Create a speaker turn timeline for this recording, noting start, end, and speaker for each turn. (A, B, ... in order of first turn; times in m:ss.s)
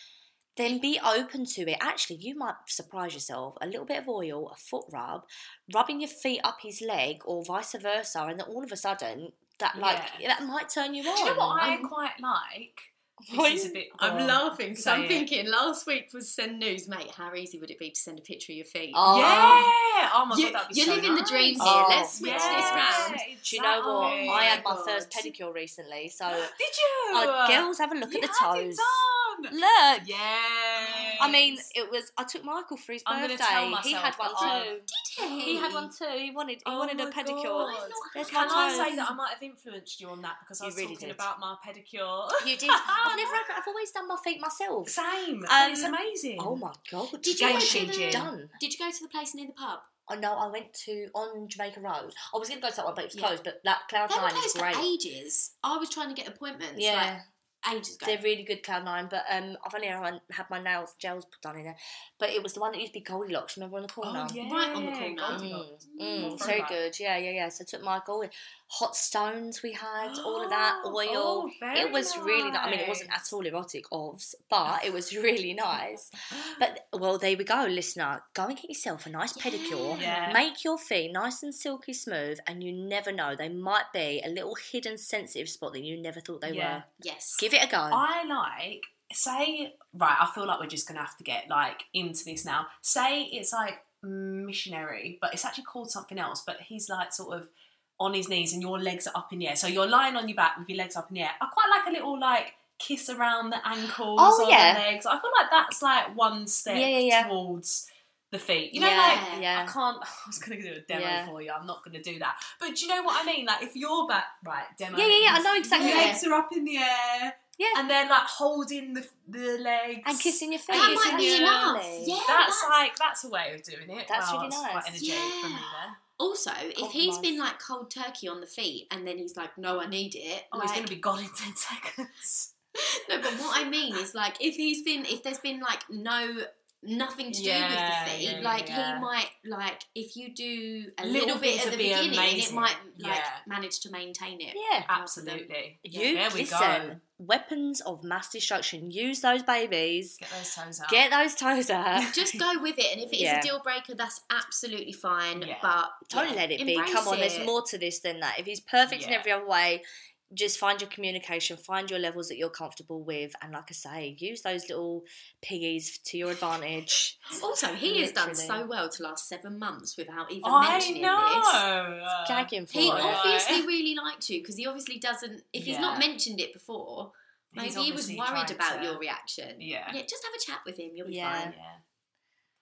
0:00.6-0:11.8 A
0:09.7-0:10.2 B
0:11.1-0:15.3 B
0:11.2-0:11.9 C
0:13.3-0:13.8 A
0:14.0-0:19.7 C
0:18.9-0:19.7 A
0:19.1-0:24.7 B
0:20.3-0:23.2 C
0:21.6-0:26.5 A
0:23.9-0:25.3 C
0:26.3-0:31.7 B
0:27.1-0:30.1 A
0:30.8-0:31.5 C
0:31.2-0:34.9 A
0:33.1-0:34.7 B
0:34.4-0:35.9 C
0:35.4-0:39.0 A
0:36.6-0:43.4 B
0:37.5-0:39.2 C
0:40.6-0:41.2 A
0:42.4-0:48.6 A
0:42.8-0:43.2 C
0:44.9-0:46.6 B
0:47.2-0:49.9 C
0:47.4-0:48.3 B
0:50.1-0:54.9 A
0:54.1-0:58.2 C
0:56.8-0:57.2 A
0:58.0-1:04.4 A
1:04.0-1:06.8 B
1:04.4-1:06.6 C
1:05.3-1:26.9 A
1:10.0-1:13.2 B
1:16.3-1:16.6 B
1:19.4-1:20.4 C
1:20.0-1:20.4 B
1:26.5-1:26.8 B
1:27.0-1:27.5 C
1:27.4-1:28.0 A
1:27.9-2:06.0 B
1:44.2-1:44.8 A
1:46.7-1:47.3 A
1:48.7-1:49.8 A
1:48.8-1:49.5 C
1:50.9-1:51.3 A
1:54.9-1:56.2 A
1:55.6-1:56.2 C
1:57.6-1:57.9 A
2:00.0-2:02.2 A
2:00.7-2:02.8 C
2:04.1-2:05.0 A
2:05.0-2:10.9 C
2:06.8-2:07.4 A
2:10.5-2:12.5 B
2:12.8-2:25.5 C
2:13.3-2:13.6 B
2:17.3-2:19.1 B
2:21.0-2:23.4 B
2:24.5-2:24.9 A
2:24.9-2:27.0 B
2:25.8-2:30.2 A
2:30.2-2:31.1 B
2:30.9-2:32.1 A
2:32.0-2:37.5 C
2:33.1-2:33.5 A
2:35.4-2:35.7 B
2:36.1-2:48.7 A
2:38.9-2:39.3 B
2:47.3-2:51.6 C
2:50.4-2:53.7 B
2:52.2-2:53.3 A
2:52.7-3:01.6 C
2:55.5-2:56.1 B
2:57.5-2:59.0 B
2:59.6-3:00.0 B
3:01.0-3:01.6 A
3:01.4-3:01.8 B